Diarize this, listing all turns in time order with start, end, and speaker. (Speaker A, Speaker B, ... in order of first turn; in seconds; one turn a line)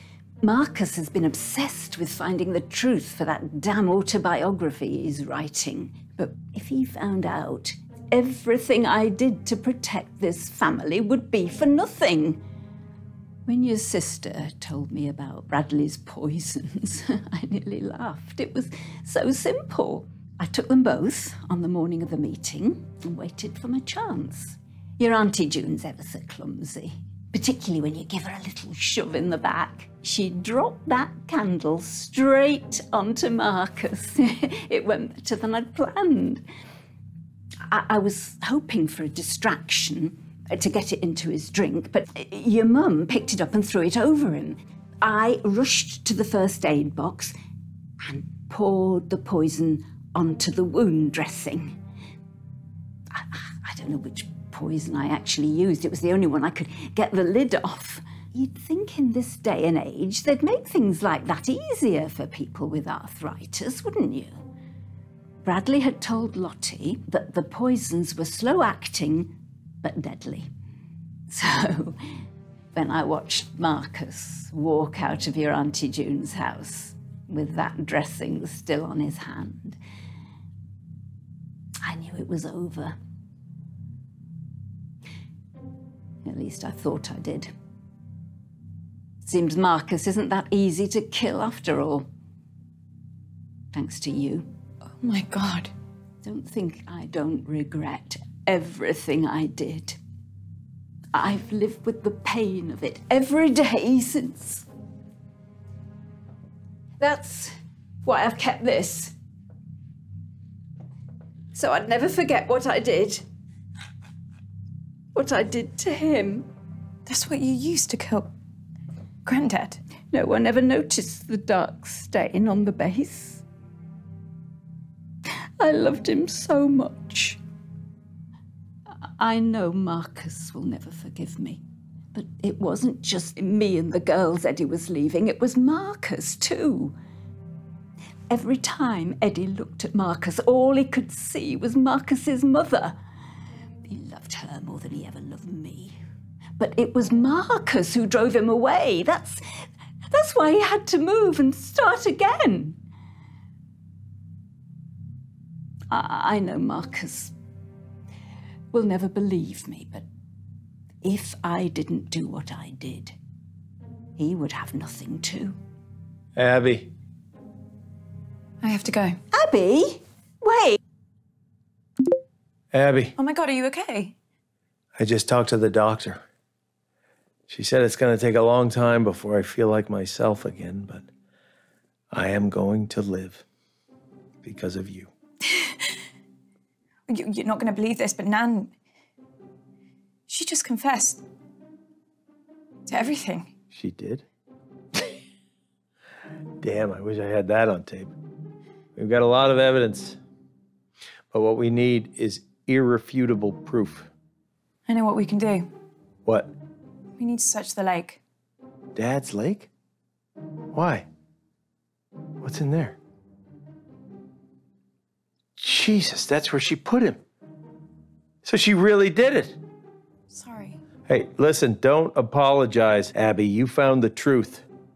Speaker A: 0.4-12.4
Speaker A: 13.5-36.4
Speaker A: 37.7-47.4
Speaker A: 48.0-51.8
Speaker A: 53.1-64.5
Speaker A: 65.4-70.5
Speaker A: 71.3-72.0
Speaker A: 72.7-79.8
Speaker A: 81.8-83.0
Speaker A: 86.2-87.5
Speaker A: 89.2-92.1
Speaker A: 93.7-94.5
Speaker B: 95.0-95.7
Speaker A: 96.2-100.0
Speaker A: 101.1-104.7
Speaker A: 107.0-107.5
Speaker A: 108.0-109.1
Speaker A: 111.5-113.2
Speaker A: 115.1-116.5
Speaker B: 117.1-118.3
Speaker B: 119.2-119.8
Speaker A: 120.1-123.4
Speaker A: 125.6-127.4
Speaker A: 129.2-131.6
Speaker A: 132.1-137.0
Speaker A: 138.3-143.0
Speaker A: 143.8-146.0
Speaker A: 146.6-149.4
Speaker A: 150.1-152.8
Speaker A: 155.9-157.3
Speaker A: 158.7-160.1
Speaker A: 161.0-163.2
Speaker A: 164.2-165.6
Speaker C: 166.3-166.9
Speaker B: 168.6-169.2
Speaker A: 169.3-170.8
Speaker C: 172.7-173.2
Speaker B: 173.2-174.2
Speaker C: 175.0-176.2
Speaker C: 177.5-181.1
Speaker C: 182.1-183.4
Speaker C: 184.4-185.1
Speaker B: 187.1-188.7
Speaker B: 190.3-191.2
Speaker B: 192.9-193.5
Speaker C: 193.7-194.3
Speaker C: 196.6-198.2
Speaker C: 198.9-200.2
Speaker C: 201.3-204.1
Speaker B: 204.9-205.7
Speaker C: 206.2-206.5
Speaker B: 207.2-208.2
Speaker C: 208.9-209.7
Speaker C: 210.7-211.1
Speaker C: 212.4-213.0
Speaker C: 215.6-217.2
Speaker C: 218.4-219.6
Speaker B: 220.3-220.8
Speaker C: 221.1-224.7